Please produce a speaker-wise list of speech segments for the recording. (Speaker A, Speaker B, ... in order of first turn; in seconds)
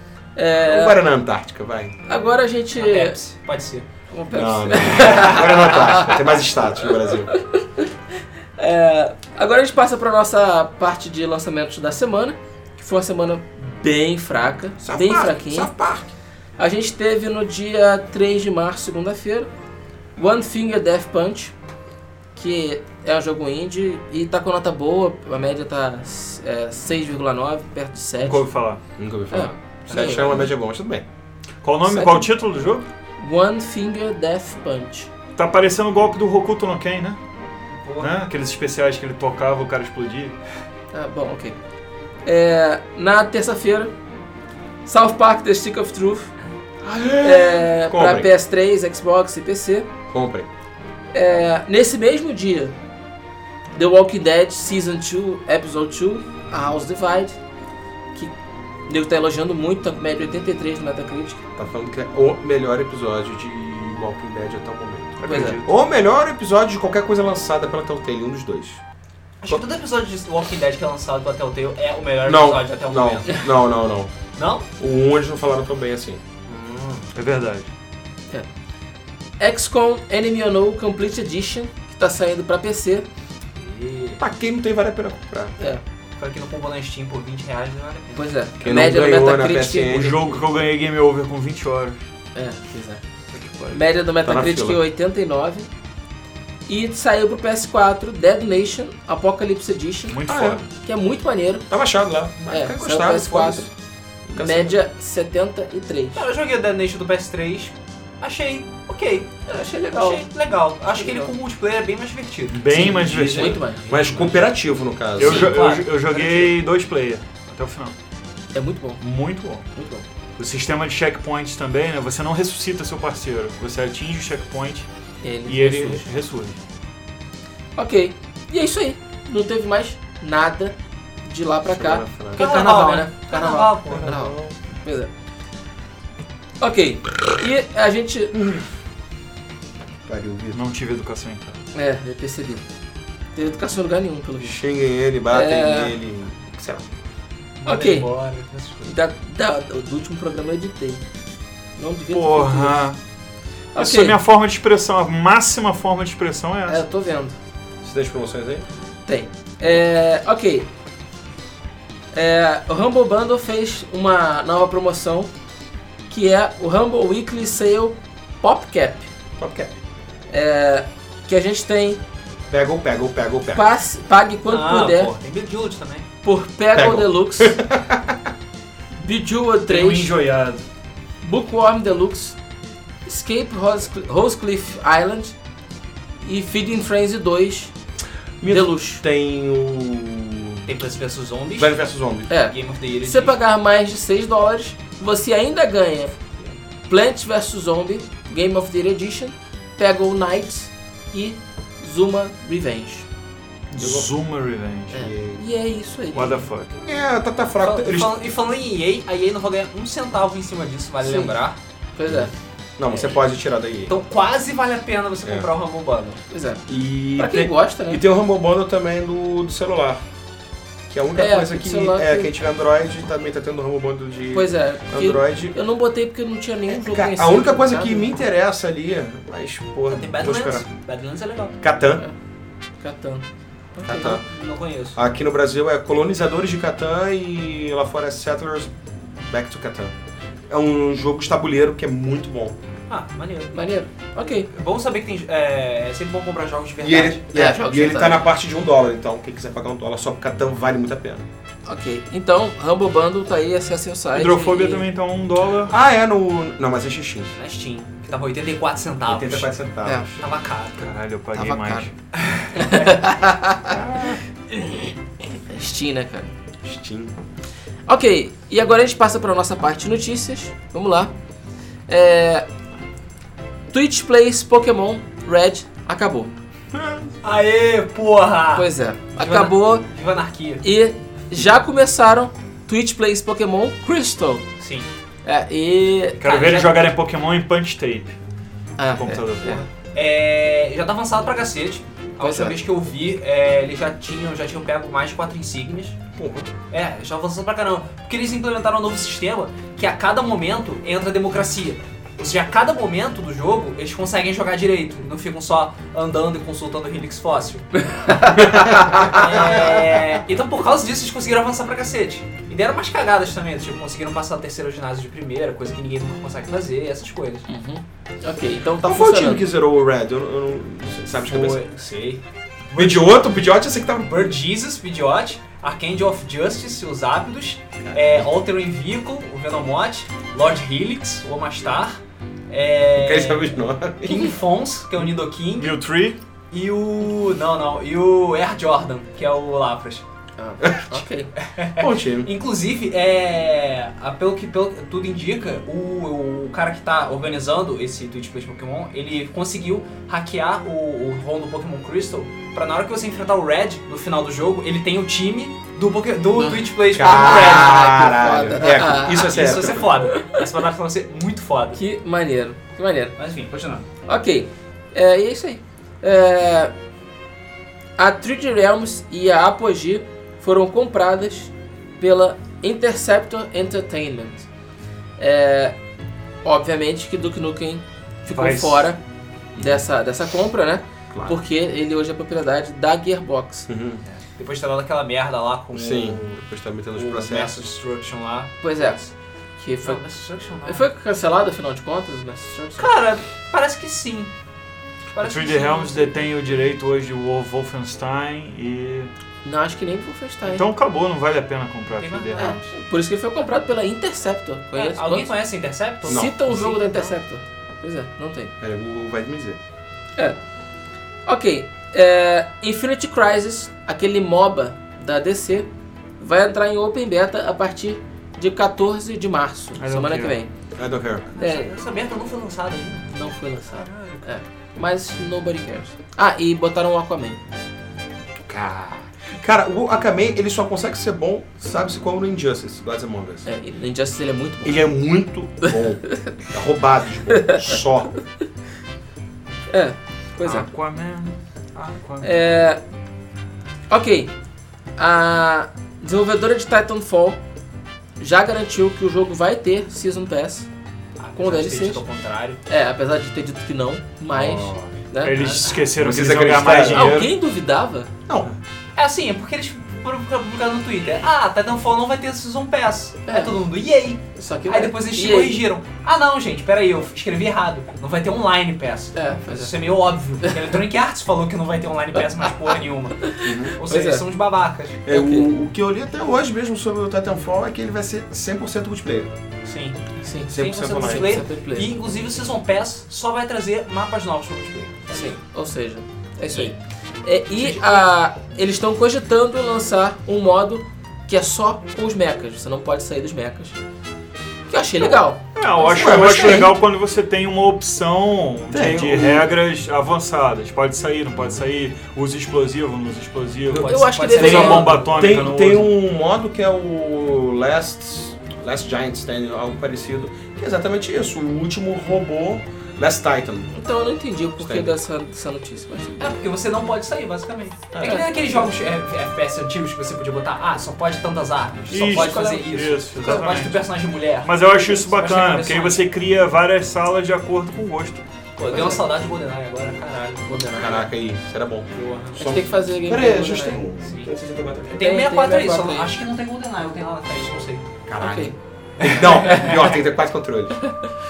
Speaker A: 0.3-1.0, 2.0-3.2, 4.1-6.2, 7.3-7.9, 8.6-15.7, 16.6-19.5, 20.1-21.5, 22.4-28.4, 29.3-30.5, 31.9-32.3, 33.2-35.1, 40.9-41.6, 42.2-43.9, 44.8-46.3, 47.2-49.9, 51.1-52.7, 53.7-57.4, 58.9-61.4, 65.2-65.6, 79.4-83.0, 88.1-90.3, 92.3-93.0, 93.7-95.7, 96.7-100.2, 100.8-101.7, 102.5-103.7, 104.3-106.2, 109.5-110.3, 110.8-111.3, 112.7-113.8, 118.5-119.0, 119.7-120.0, 125.2-126.0, 127.8-135.1, 136.6-138.4, 141.7-142.6, 143.3-144.6, 145.3-145.9, 147.6-148.1, 148.8-151.0, 151.8-152.8, 153.7-154.2, 156.7-157.3, 159.1-160.7, 162.1-165.3, 166.1-169.1, 170.3-172.0, 173.5-175.1, 176.2-177.6, 179.0-180.1, 181.2-182.4, 183.0-185.3, 186.2-187.7, 188.4-189.0, 192.3-196.1, 196.9-203.1, 204.9-206.5, 211.0-211.3, 211.9-212.3, 216.3-218.0, 221.1-222.3, 224.3-228.1, 232.8-234.2, 243.5-244.5, 247.3-248.2, 251.7-254.8, 261.3-261.9, 262.5-263.7, 264.5-264.9, 265.4-266.3, 267.9-271.1, 271.9-272.5, 273.7-276.3, 278.5-279.9, 280.6-284.4, 285.2-286.3, 288.8-289.6, 292.2-292.6, 307.8-309.3, 317.5-319.4, 340.4-341.3, 356.4-360.4, 361.8-363.1, 364.1-366.7, 368.0-374.5, 375.2-375.8, 376.4-379.0, 379.5-383.7, 388.6-389.0, 389.6-390.0, 390.6-392.9, 399.4-400.6, 402.4-405.3, 406.0-408.5, 411.2-415.7, 416.2-420.5, 421.4-421.7, 423.1-427.4, 433.4-434.9, 436.1-436.4, 437.3-437.7, 439.7-440.7, 442.2-442.8, 443.9-444.3, 445.0-447.4, 448.2-450.7, 451.4-452.0, 452.7-455.4, 456.8-458.1, 463.3-463.5, 464.4-465.6, 469.1-469.7, 473.3-474.2, 475.1-475.5, 480.2-481.9, 485.1-493.8, 494.7-496.6, 503.9-505.1, 513.7-516.4, 518.0-518.5, 522.0-522.6, 528.7-529.0, 530.5-531.1, 532.4-533.9, 535.0-536.1, 538.2-538.5
Speaker B: 0.7-1.9, 4.3-7.3, 14.8-16.1, 29.0-31.0, 46.8-48.3, 50.1-50.5, 61.6-68.8, 72.2-74.1, 74.8-76.2, 84.2-85.6, 88.6-90.4, 93.3-94.8, 100.3-100.6, 101.7-103.7, 104.3-104.8, 112.7-115.6, 131.7-132.6, 133.9-134.6, 140.1-140.6, 144.4-146.8, 157.8-158.7, 169.4-169.7, 172.5-173.7, 176.7-178.2, 188.4-190.7, 191.6-192.3, 203.8-204.1, 205.0-205.4, 206.8-208.2, 212.1-214.0, 215.2-215.5, 216.7-220.0, 220.9-225.6, 226.7-230.6, 231.6-232.0, 233.8-234.2, 234.9-239.9, 240.5-242.6, 246.8-251.2, 255.7-257.3, 259.1-260.2, 263.6-264.2, 266.6-267.1, 276.7-277.0, 296.1-296.5, 308.4-310.0, 318.8-321.6, 322.7-324.3, 327.8-328.3, 332.9-334.3, 340.6-340.9, 341.8-342.3, 356.9-360.0, 381.1-381.4, 383.7-384.0, 385.7-387.7, 406.1-406.3, 408.6-409.6, 420.8-421.3, 428.4-433.5, 434.6-438.1, 454.3-454.9, 455.9-457.2, 458.3-458.5, 473.4-473.8, 475.1-479.3, 480.5-481.4, 495.8-496.8, 498.7-499.6, 503.7-513.7, 514.6-514.9, 517.9-518.3, 530.8-535.1, 538.0-540.8
Speaker C: 2.8-3.9, 29.9-30.4, 37.8-38.1, 69.4-73.4, 74.3-74.7, 76.5-77.1, 83.6-84.2, 86.2-88.3, 106.1-112.6, 113.8-114.4, 115.2-116.5, 132.3-134.1, 147.6-148.9, 174.5-176.1, 190.7-193.4, 207.6-211.6, 213.9-216.2, 229.9-231.5, 233.9-235.0, 242.9-243.6, 244.5-247.2, 257.4-259.5, 260.2-260.9, 262.1-262.9, 277.2-280.6, 284.6-284.9, 286.2-286.9, 289.9-296.0, 296.7-307.7, 308.9-317.5, 321.3-323.3, 324.0-335.8, 336.5-340.0, 341.4-358.1, 358.7-361.8, 363.2-363.9, 384.1-386.4, 386.9-389.1, 389.8-390.9, 392.8-394.3, 395.1-396.3, 402.0-402.5, 404.7-407.1, 421.3-424.3, 451.2-452.6, 455.3-455.8, 458.9-475.0, 479.6-485.4, 486.5-486.7, 487.5-488.1, 503.7-505.4, 516.2-526.0, 528.6-531.0, 531.9-532.5, 534.0-534.3, 534.9-537.9, 539.0-539.9
Speaker D: 28.2-28.8, 31.6-32.9, 35.3-37.2, 38.0-40.3, 65.2-65.7, 77.1-77.7, 89.9-92.0, 100.1-100.6, 112.5-113.6, 115.2-117.9, 119.0-119.7, 120.4-124.9, 125.5-126.6, 140.5-141.5, 152.1-153.0, 153.8-156.8, 179.7-180.6, 203.7-205.1, 206.1-206.7, 254.1-255.7, 260.8-261.9, 286.2-288.1, 288.9-289.6, 335.6-336.2, 378.3-378.9, 395.2-399.1, 400.4-402.7, 419.8-420.4, 440.4-442.4, 455.2-457.3, 495.5-505.9, 521.9-523.8, 524.4-528.2